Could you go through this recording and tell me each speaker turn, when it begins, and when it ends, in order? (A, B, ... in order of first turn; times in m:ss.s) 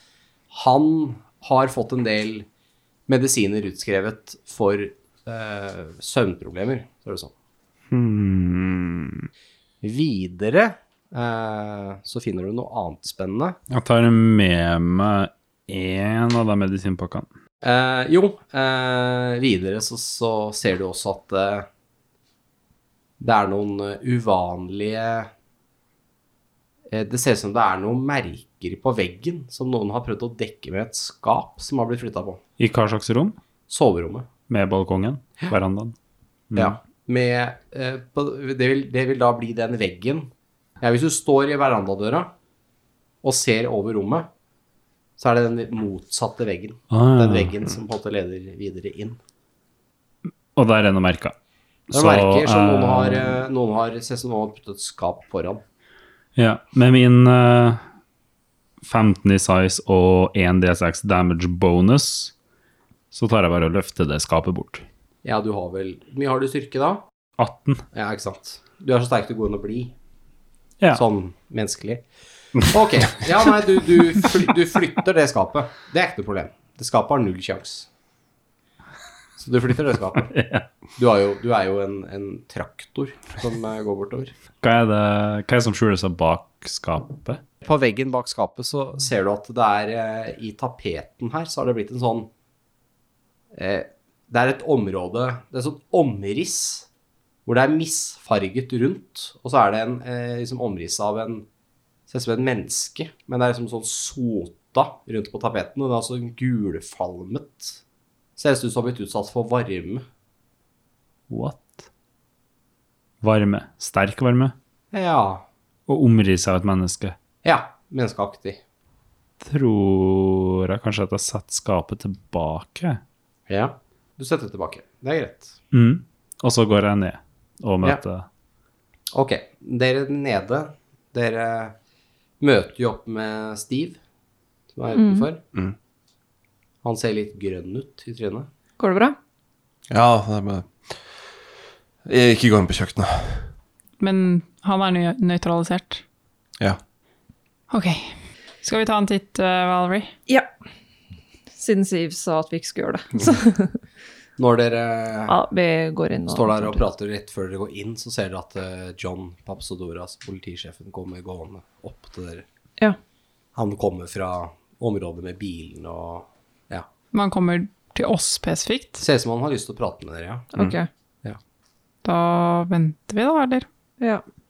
0:00.5-0:02.5 A
0:03.1-0:07.3 A
0:07.9-0:09.3 B
0:09.8-0:13.6 A
0:13.7-0:17.2 C
0:17.6-0:21.7 A
0:23.2-0:25.3 A
0:26.9-0:32.4 A
0:32.6-0:33.4 C
0:33.7-0:34.3 A
0:34.5-0:35.9 C
0:36.5-0:36.8 C
0:36.5-0:42.3 A
0:43.2-0:44.3 A
0:45.2-0:49.2 A
0:46.9-0:47.5 C
0:50.6-0:51.3 C
0:51.9-0:53.4 C
0:51.9-0:55.6 A
0:56.4-0:57.8 C
0:58.8-1:02.3 C
1:03.1-1:04.8 C
1:05.2-1:07.0 A
1:07.4-1:07.8 C
1:07.9-1:09.9 A
1:10.9-1:17.9 A
1:19.4-1:20.3 A
1:20.3-1:20.6 C
1:21.0-1:24.3 A
1:24.6-1:27.4 C
1:27.6-1:32.3 A
1:33.5-1:36.9 A
1:37.4-1:41.4 A
1:42.1-1:47.8 A
1:48.4-1:50.0 A
1:51.3-1:51.8 C
1:53.2-1:54.5 C
1:54.9-1:55.4 A
1:55.9-1:57.2 C
1:57.4-1:58.6 A
1:59.4-2:03.0 C
2:03.5-2:05.5 A
2:05.7-2:08.2 C
2:09.1-2:11.8 A
2:12.4-2:14.0 A
2:14.7-2:15.4 A
2:14.9-2:15.3 D
2:16.8-2:18.5 A
2:18.8-2:19.2 D
2:19.9-2:21.3 B
2:22.0-2:23.5 B
2:24.0-2:26.0 E
2:27.7-2:30.1 E
2:31.5-2:33.8 D
2:34.4-2:35.3 A
2:35.3-2:36.8 D
2:36.3-2:42.4 A
2:43.6-2:46.9 A
2:47.1-2:49.0 E
2:49.0-2:50.5 A
2:50.5-2:50.9 D
2:52.0-2:53.6 E